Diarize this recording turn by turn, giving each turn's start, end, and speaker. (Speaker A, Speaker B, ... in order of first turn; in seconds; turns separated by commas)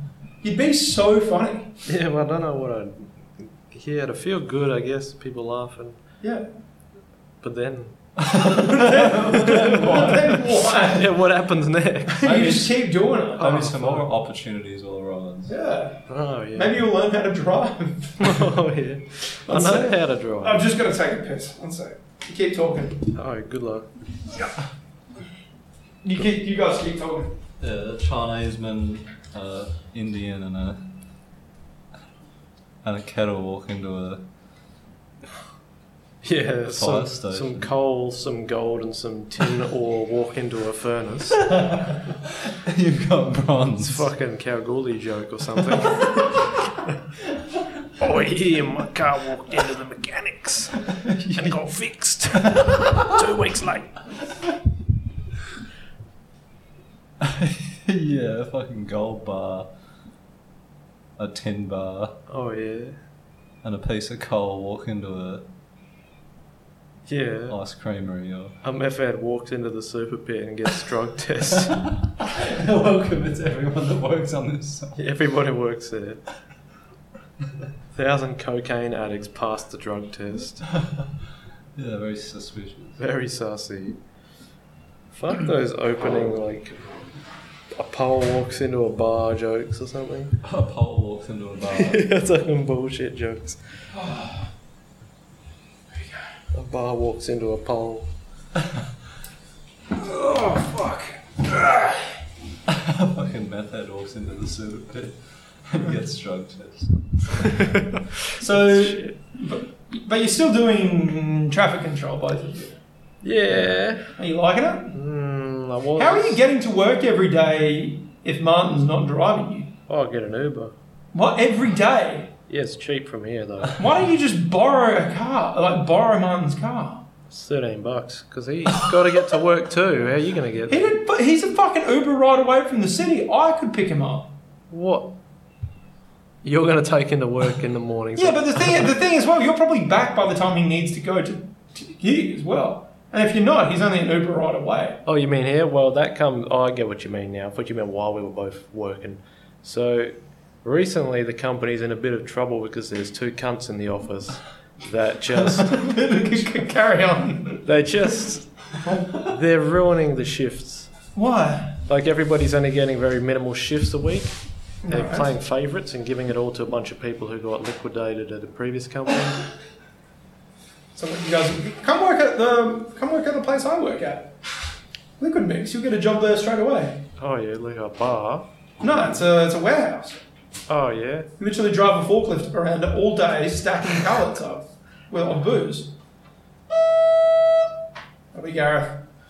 Speaker A: 0.4-1.7, Speaker B: 1.9-6.0, Speaker A: 6.2-6.5, Speaker B: 7.4-8.0, Speaker C: 8.2-10.3, Speaker A: 8.5-11.1, Speaker B: 9.3-12.5, Speaker A: 12.1-13.7, Speaker C: 12.2-12.7, Speaker C: 13.3-15.5, Speaker B: 13.4-14.0, Speaker A: 15.5-18.5, Speaker B: 16.1-16.8, Speaker B: 18.2-20.7, Speaker A: 19.3-23.1, Speaker B: 23.1-23.9, Speaker A: 26.0-27.4, Speaker C: 27.6-30.9, Speaker C: 32.8-34.2, Speaker B: 36.2-41.5, Speaker C: 36.7-37.7, Speaker C: 41.4-44.1, Speaker B: 43.8-47.0, Speaker B: 48.0-50.8, Speaker C: 50.9-51.5, Speaker B: 51.3-54.0, Speaker C: 52.4-52.9, Speaker C: 57.2-59.7, Speaker C: 61.2-62.2, Speaker B: 62.3-63.0, Speaker C: 63.6-65.5, Speaker B: 67.1-67.6, Speaker C: 67.5-68.5, Speaker B: 68.6-71.8, Speaker C: 71.6-75.0, Speaker B: 75.0-76.2, Speaker B: 77.9-80.6, Speaker C: 80.7-81.1, Speaker C: 81.8-83.0, Speaker B: 83.0-84.0, Speaker B: 85.1-87.1, Speaker B: 87.7-90.4, Speaker C: 90.4-92.1, Speaker B: 91.7-93.6, Speaker A: 94.0-94.3, Speaker B: 96.5-98.1, Speaker A: 99.9-102.1, Speaker C: 102.7-107.9, Speaker B: 107.5-109.1, Speaker A: 108.3-112.8, Speaker B: 113.2-114.1, Speaker A: 114.2-115.0, Speaker B: 114.9-116.4, Speaker A: 116.0-119.7, Speaker B: 119.9-120.8, Speaker A: 121.1-122.3, Speaker B: 122.5-123.8, Speaker A: 123.8-127.0, Speaker B: 127.3-130.9, Speaker A: 130.7-134.3, Speaker B: 134.7-135.1, Speaker B: 136.4-138.9, Speaker A: 138.2-145.0, Speaker B: 145.1-155.8, Speaker A: 155.7-157.7, Speaker B: 157.7-158.6, Speaker B: 159.1-160.9, Speaker A: 161.2-161.8, Speaker B: 161.9-169.4, Speaker A: 164.8-165.3, Speaker A: 170.9-174.3, Speaker A: 175.2-177.0, Speaker B: 177.2-178.5, Speaker A: 178.8-180.2, Speaker B: 180.7-181.3, Speaker A: 181.4-185.9, Speaker A: 188.3-189.0